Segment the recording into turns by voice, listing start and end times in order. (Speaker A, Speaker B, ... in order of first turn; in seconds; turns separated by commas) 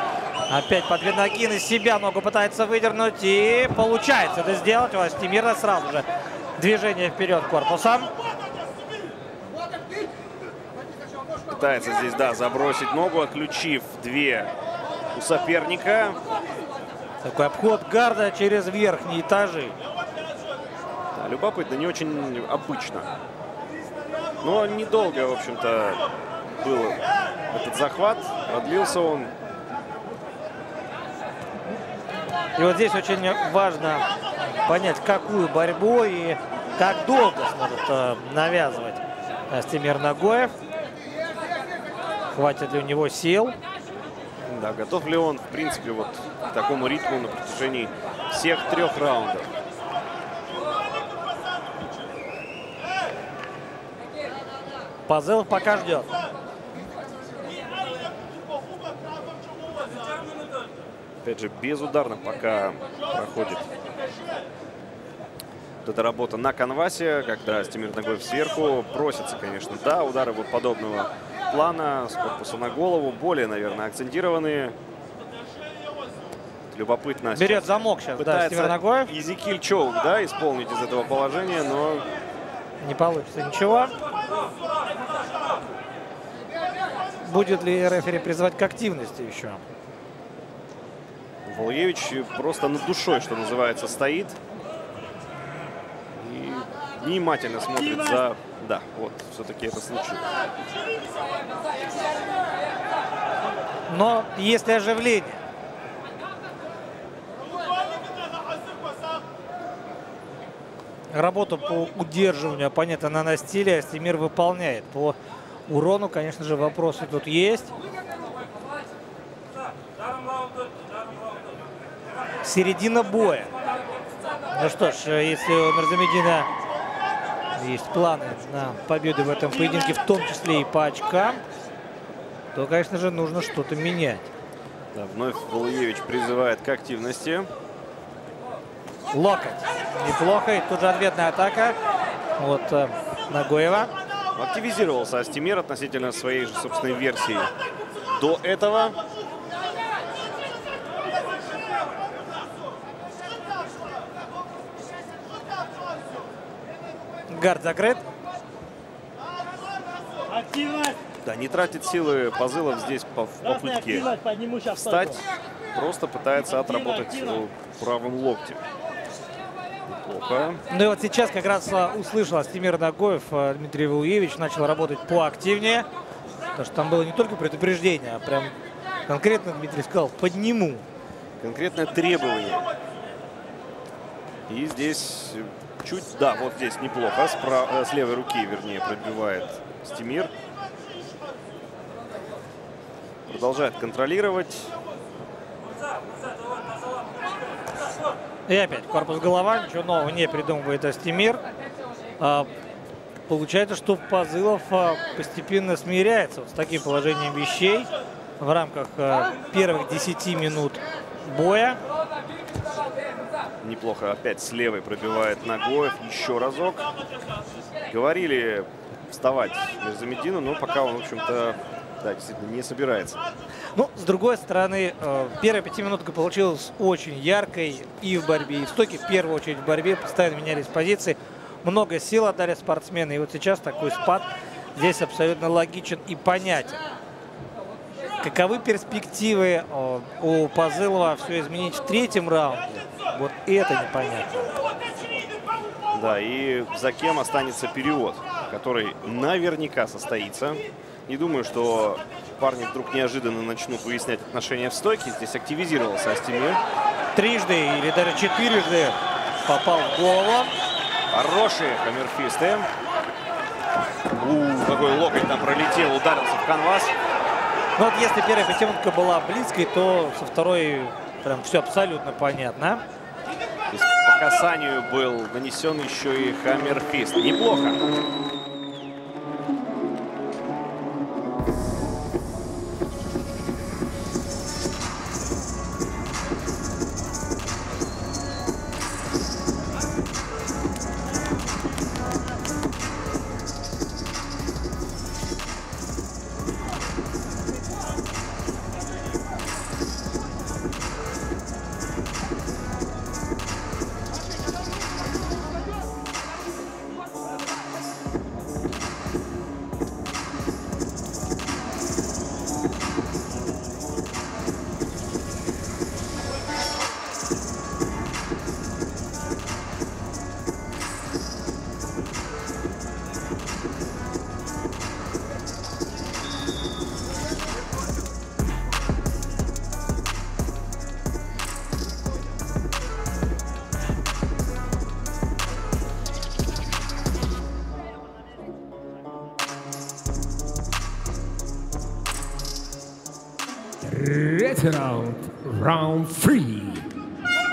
Speaker A: 0.5-8.1, Speaker B: 11.5-14.5, Speaker B: 15.1-16.2, Speaker A: 17.2-19.8, Speaker B: 21.1-23.1, Speaker B: 24.4-26.0, Speaker B: 26.6-29.3, Speaker A: 32.5-40.5, Speaker A: 42.3-43.6, Speaker B: 44.5-49.5, Speaker A: 55.1-56.2, Speaker B: 61.2-63.6, Speaker B: 65.8-74.7, Speaker B: 76.7-82.0, Speaker A: 77.3-79.1, Speaker A: 82.8-83.9, Speaker A: 87.2-89.6, Speaker B: 91.5-94.4, Speaker B: 96.1-100.3, Speaker A: 103.9-105.4, Speaker A: 111.1-115.2, Speaker A: 115.7-117.7, Speaker A: 122.4-123.5, Speaker A: 124.5-126.5, Speaker A: 127.5-131.4, Speaker A: 132.5-134.3, Speaker B: 134.9-137.5, Speaker A: 139.1-141.8, Speaker A: 142.4-143.9, Speaker B: 144.3-147.5, Speaker B: 148.1-148.9, Speaker A: 157.3-158.0, Speaker B: 161.2-168.6, Speaker B: 169.9-170.6, Speaker A: 170.7-175.9, Speaker A: 176.5-178.5, Speaker A: 179.1-180.8, Speaker B: 181.4-182.7, Speaker B: 184.5-190.3, Speaker B: 193.3-194.7, Speaker A: 198.5-201.4, Speaker A: 202.2-202.5, Speaker A: 203.3-211.8, Speaker B: 213.6-216.9, Speaker B: 217.9-223.2, Speaker A: 223.7-236.8, Speaker A: 238.2-244.5, Speaker B: 245.9-256.6, Speaker A: 257.1-260.5, Speaker B: 261.1-262.7, Speaker B: 264.2-266.9, Speaker A: 267.8-272.8, Speaker B: 273.7-277.8, Speaker C: 343.8-346.9